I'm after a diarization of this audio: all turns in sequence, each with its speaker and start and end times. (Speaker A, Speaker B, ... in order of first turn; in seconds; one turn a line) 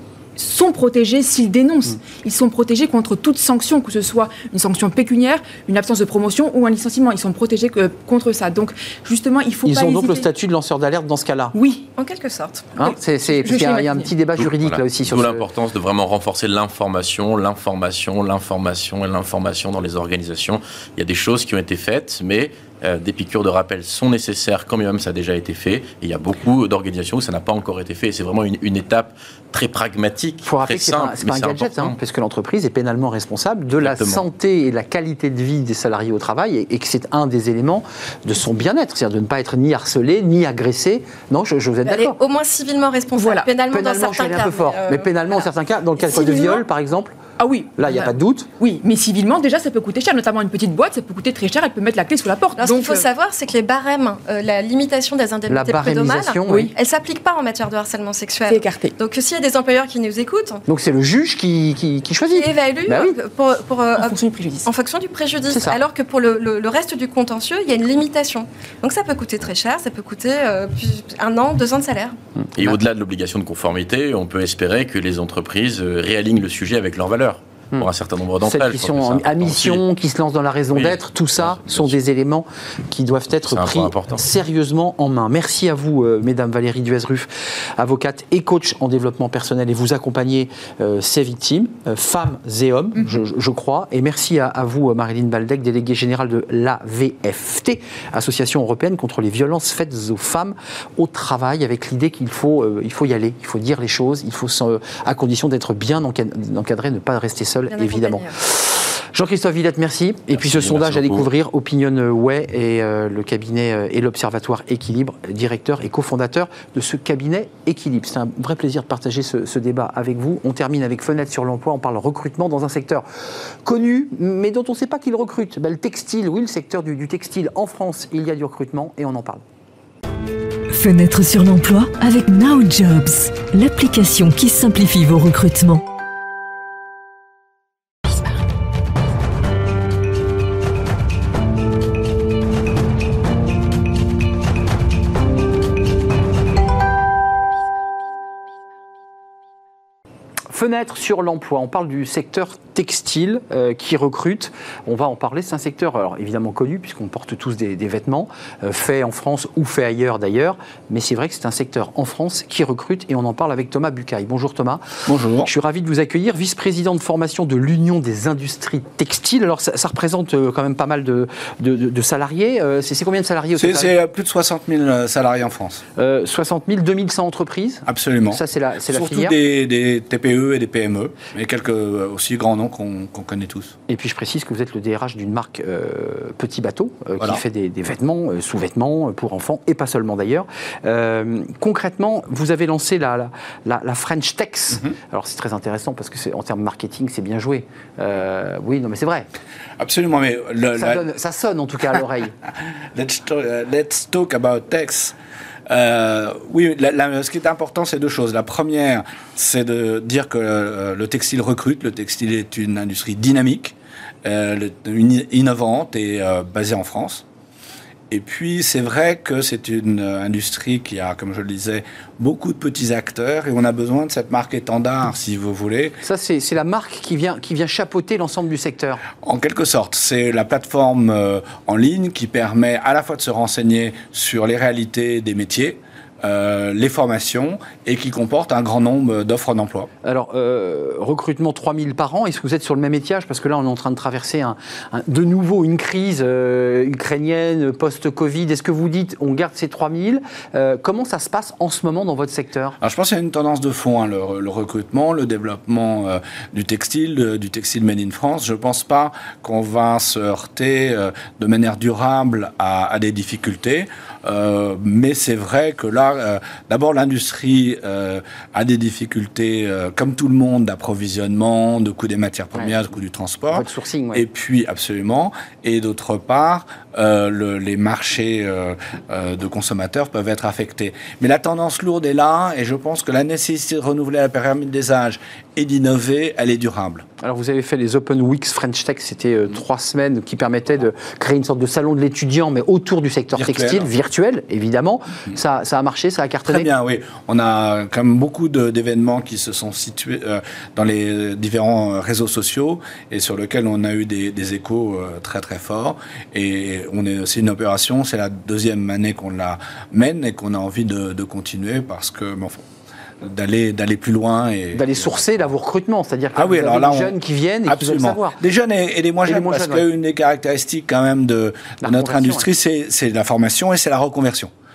Speaker A: 0.4-10.3
Speaker B: 9.6-11.6
Speaker A: 11.5-11.9
Speaker C: 12.0-12.7
Speaker B: 12.8-15.4
Speaker A: 12.8-14.1
Speaker D: 14.4-31.9
Speaker B: 30.4-42.2
Speaker D: 33.8-34.2
Speaker C: 41.9-45.2
Speaker A: 43.1-43.5
Speaker B: 43.7-47.2
Speaker A: 46.0-46.6
Speaker A: 47.4-53.1
Speaker B: 47.8-48.5
Speaker C: 52.6-60.6
Speaker B: 55.5-56.7
Speaker A: 58.5-58.9
Speaker B: 60.7-63.2
Speaker C: 62.3-72.1
Speaker A: 64.0-64.7
Speaker B: 65.5-65.8
Speaker B: 72.5-72.8
Speaker D: 72.6-79.8
Speaker B: 78.4-123.0
Speaker D: 80.7-82.0
Speaker D: 83.4-84.2
Speaker C: 107.7-108.3
Speaker D: 110.3-111.3
Speaker B: 123.6-129.4
Speaker E: 130.7-135.8
Speaker B: 150.5-164.8
Speaker F: 165.1-165.5
Speaker B: 165.4-173.9
Speaker F: 173.6-175.8
Speaker B: 175.9-179.4
Speaker F: 177.9-183.7
Speaker B: 183.9-199.3
Speaker F: 199.8-201.1
Speaker B: 200.8-202.3
Speaker F: 202.9-205.1
Speaker F: 205.7-217.2
Speaker F: 218.1-225.9
Speaker B: 226.0-229.0
Speaker F: 229.2-239.9
Speaker B: 240.0-252.8
Speaker F: 252.8-287.1
Speaker B: 272.5-272.9
Speaker B: 273.5-274.2
Speaker B: 287.2-296.7
Speaker F: 293.3-293.9
Speaker F: 296.4-312.6
Speaker F: 313.2-315.5
Speaker B: 314.7-318.4
Speaker F: 316.3-317.1
Speaker F: 317.6-324.5
Speaker B: 319.2-319.9
Speaker B: 321.8-322.5